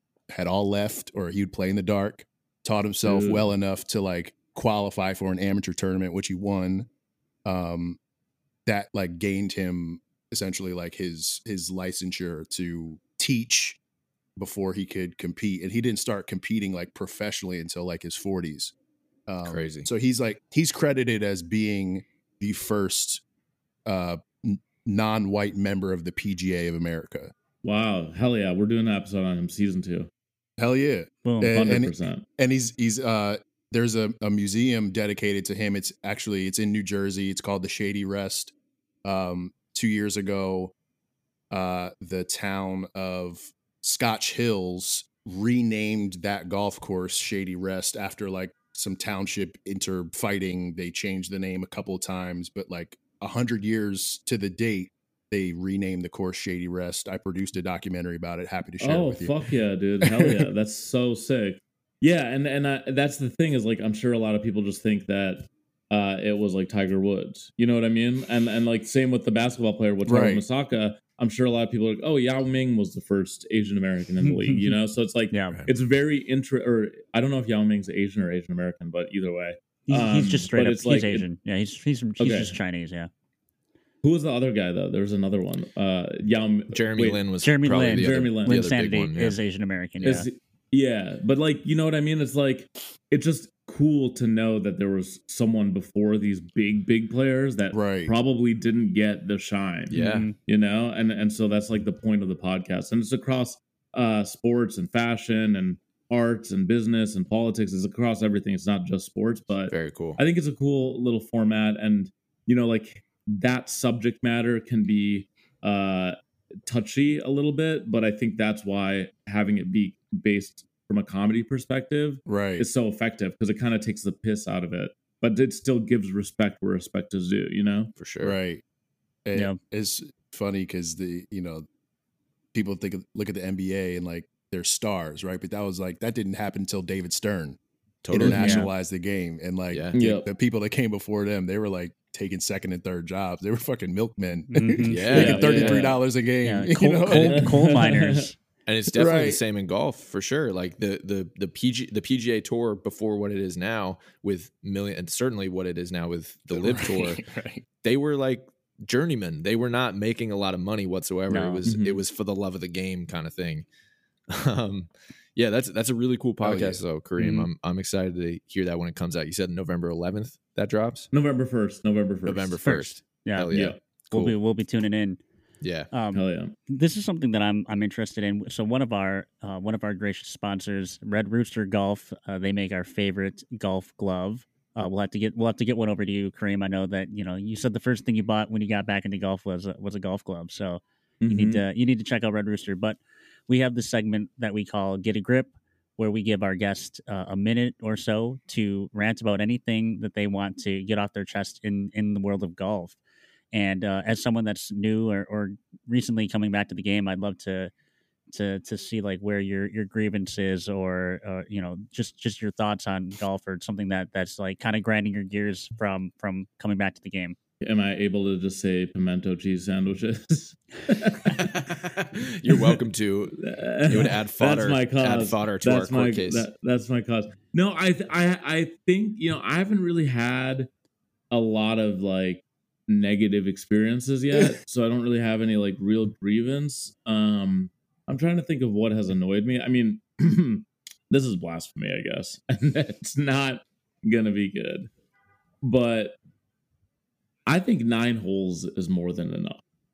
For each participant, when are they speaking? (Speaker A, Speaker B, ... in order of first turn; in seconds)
Speaker A: 0.3-6.9, 7.4-8.0, 8.7-13.8, 14.4-18.7, 19.3-23.2, 23.9-27.3, 30.6-38.5, 39.0-40.7, 41.5-59.4, 60.0-60.5, 70.0-70.4, 97.7-98.1, 122.2-122.7, 128.2-128.6, 129.2-131.6, 132.5-137.6, 138.1-147.7, 148.9-149.4, 156.5-157.6, 166.4-166.8
Speaker B: 3.0-3.5, 27.6-30.1, 31.4-32.2, 58.8-81.2, 82.2-82.5, 84.0-87.2, 87.9-88.6, 90.0-127.9, 139.9-140.3, 145.1-145.9, 147.2-148.1, 161.6-162.0, 171.1-172.6, 173.5-173.8, 176.1-176.5, 191.2-191.6, 217.6-221.6, 222.5-222.8, 223.4-230.7, 231.3-244.9, 245.6-246.2, 247.4-249.6
Speaker C: 19.4-19.9, 86.7-89.4, 99.9-100.3, 109.7-110.2, 128.0-128.3, 138.0-138.7, 139.7-140.0, 144.9-145.6, 148.7-157.2, 157.8-163.6, 164.3-171.1, 172.2-174.3, 175.6-175.9, 221.8-226.5
Speaker D: 31.2-31.6, 74.2-74.7, 75.3-75.6, 79.9-83.1, 87.4-90.3, 99.9-100.3, 138.2-138.7, 144.5-148.3, 161.3-161.6, 172.6-173.6, 174.1-175.2, 175.9-203.0, 203.5-207.7, 208.3-217.4